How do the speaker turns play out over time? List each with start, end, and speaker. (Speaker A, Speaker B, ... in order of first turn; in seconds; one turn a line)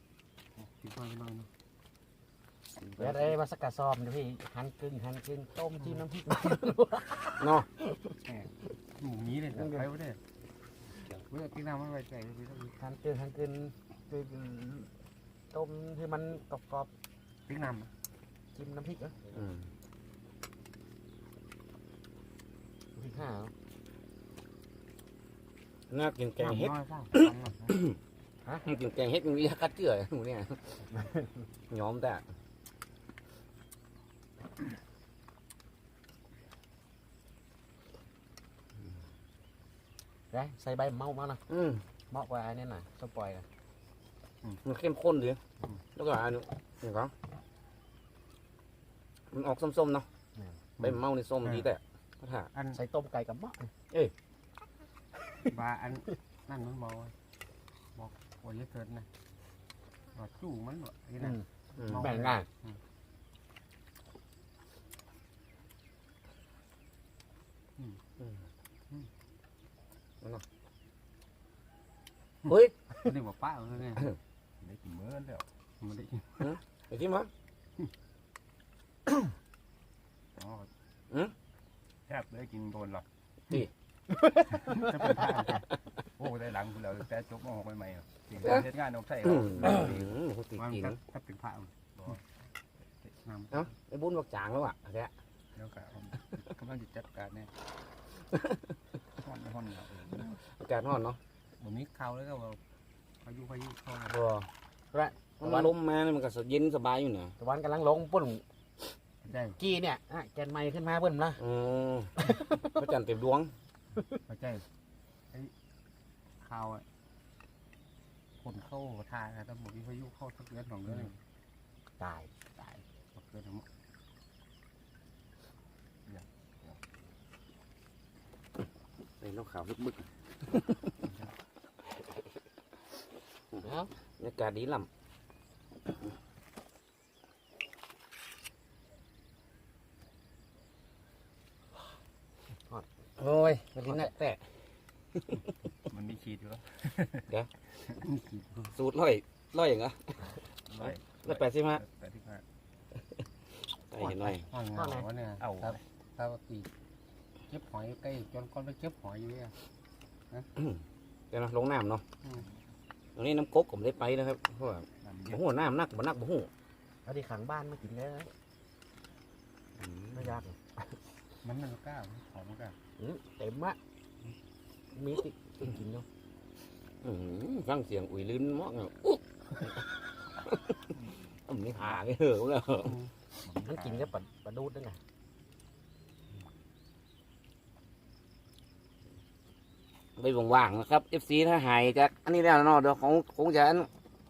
Speaker A: 0.6-1.5
Speaker B: 3.0-8.2
Speaker C: 7.4-7.7
Speaker A: 9.0-10.2
Speaker B: 9.5-9.8
Speaker A: 11.2-12.7
Speaker B: 12.8-14.9
Speaker B: 15.5-16.9
Speaker A: 17.5-17.9
Speaker B: 18.5-19.2
Speaker C: 19.3-19.7
Speaker B: 22.9-23.5
Speaker C: 25.9-28.0
Speaker A: 26.4-27.7
Speaker C: 28.6-30.9
Speaker B: 30.9-31.3
Speaker C: 31.7-32.2
Speaker B: 40.3-41.4
Speaker C: 41.5-41.8
Speaker B: 42.1-43.5
Speaker C: 44.6-45.4
Speaker C: 46.0-47.1
Speaker C: 49.3-50.1
Speaker B: 50.4-50.9
Speaker C: 50.8-52.5
Speaker B: 52.7-53.7
Speaker A: 55.5-57.1
Speaker A: 58.0-59.1
Speaker A: 60.1-62.4
Speaker B: 61.2-62.5
Speaker C: 61.8-62.1
Speaker C: 72.5-73.1
Speaker A: 73.0-74.1
Speaker D: 74.6-75.5
Speaker A: 75.8-76.5
Speaker C: 76.4-77.3
Speaker A: 80.4-80.6
Speaker D: 82.1-83.0
Speaker A: 84.7-85.7
Speaker D: 86.2-90.2
Speaker C: 88.4-88.7
Speaker C: 89.2-91.0
Speaker A: 90.6-91.7
Speaker A: 93.2-93.6
Speaker C: 93.5-95.1
Speaker D: 95.7-97.5
Speaker C: 98.3-98.6
Speaker D: 99.2-100.2
Speaker C: 100.2-101.2
Speaker A: 101.6-102.6
Speaker A: 103.2-104.2
Speaker C: 104.1-104.5
Speaker B: 104.9-105.7
Speaker C: 105.4-107.3
Speaker B: 107.4-108.4
Speaker A: 109.3-109.6
Speaker B: 109.6-111.4
Speaker C: 111.4-113.5
Speaker B: 112.3-112.7
Speaker A: 114.3-114.7
Speaker A: 116.4-116.9
Speaker A: 118.4-121.2
Speaker B: 122.0-122.3
Speaker A: 122.6-123.7
Speaker C: 129.2-130.9
Speaker C: 133.6-134.9
Speaker B: 133.6-133.9
Speaker C: 143.2-144.4
Speaker B: 143.9-144.2
Speaker D: 145.9-146.8
Speaker C: 147.2-147.5
Speaker A: 148.0-148.7
Speaker C: 148.7-151.8
Speaker D: 150.8-151.2
Speaker D: 151.8-152.4
Speaker C: 153.9-154.5
Speaker B: 154.0-155.1
Speaker A: 154.5-156.7
Speaker C: 155.4-155.8
Speaker A: 157.5-159.5
Speaker C: 160.6-162.0
Speaker C: 163.2-166.5
Speaker B: 167.1-168.3
Speaker C: 169.8-170.4
Speaker B: 170.1-170.6
Speaker A: 171.4-172.8
Speaker B: 173.0-173.8
Speaker B: 174.9-176.1
Speaker C: 177.0-183.1
Speaker A: 182.9-183.7
Speaker B: 183.6-185.0
Speaker C: 190.2-193.9